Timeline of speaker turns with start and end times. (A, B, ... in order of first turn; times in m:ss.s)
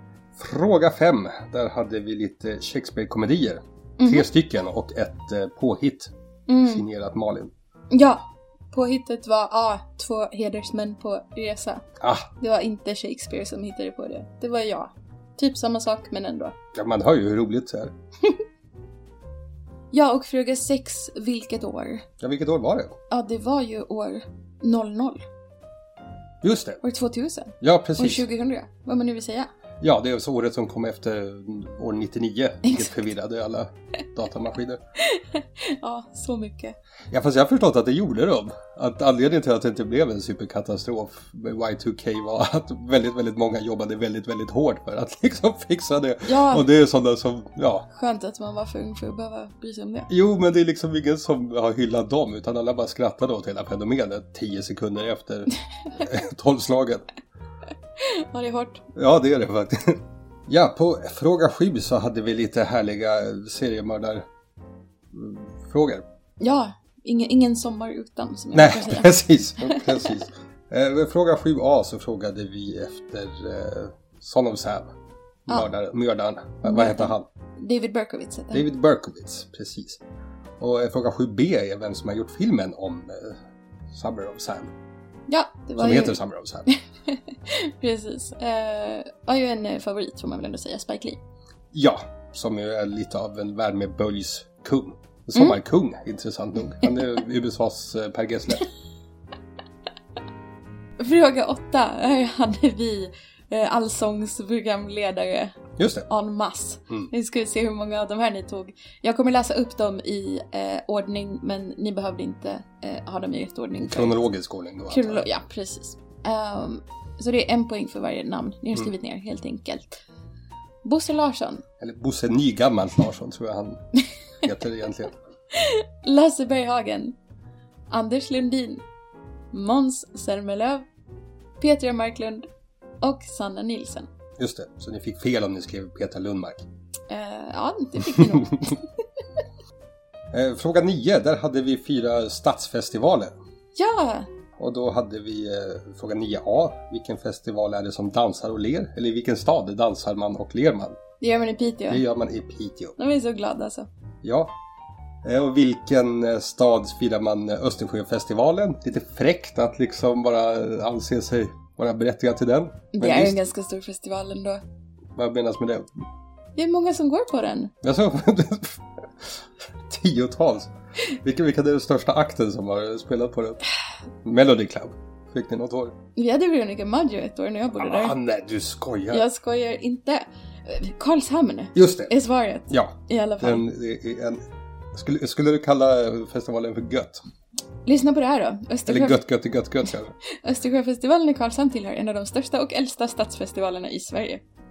0:00.4-0:07.5 A
0:04.0-0:04.2 B
0:06.5-0:06.8 B
0:07.9-0:11.8 B
0:12.0-0:12.3 A
0:12.4-0:16.5 B
0:16.7-0:17.9 A
0:19.9-0:22.0 B
0:22.2-0:22.9 A
0:23.1-0:25.2 B
0:26.4-0:26.8 A
0:26.8-0:29.5 B
0:27.6-0:28.2 A
0:29.8-0:34.8 A
0:32.6-0:32.9 B
0:35.0-0:36.7 B
0:37.1-0:47.9 A
0:46.2-0:46.6 B
0:47.9-0:50.1 B
0:50.1-0:57.0 A
0:58.0-0:58.8 B
0:58.9-1:04.3 A
1:05.1-1:06.0 A
1:06.4-1:10.1 B
1:08.5-1:14.9 A
1:15.5-1:17.2 A
1:16.6-1:18.6 B
1:18.5-1:20.0 A
1:20.6-1:23.4 A
1:23.9-1:24.7 A
1:25.3-1:31.2 B
1:25.8-1:26.6 A
1:31.7-1:38.6 A
1:41.0-1:45.6 B
1:45.8-1:46.1 A
1:46.1-1:54.1 B
1:53.8-1:55.2 A
1:54.9-2:00.0 B
2:00.8-2:01.6 B
2:01.8-2:03.8 A
2:04.4-2:05.1 A
2:05.5-2:07.2 B
2:07.9-2:08.8 B
2:09.5-2:10.8 B
2:11.6-2:12.5 B
2:13.0-2:14.1 B
2:14.4-2:16.6 A
2:17.1-2:18.8 B
2:18.0-2:18.4 A
2:20.3-2:23.3 A
2:23.8-2:24.3 B
2:24.6-2:31.0 A
2:31.2-2:32.0 B
2:31.9-2:33.0 A
2:33.0-2:33.9 B
2:34.2-2:34.5 A
2:35.2-2:43.4 A
2:42.9-2:44.6 B
2:45.1-2:46.0 A
2:46.6-2:47.7 B
2:47.8-2:53.6 A
2:54.2-2:56.0 A
2:56.2-2:58.2 B
2:57.8-2:59.2 A
2:59.1-3:03.6 B
3:01.7-3:02.1 A
3:02.7-3:04.4 A
3:04.9-3:07.2 A
3:07.8-3:09.2 B
3:08.9-3:10.1 A
3:10.4-3:14.4 B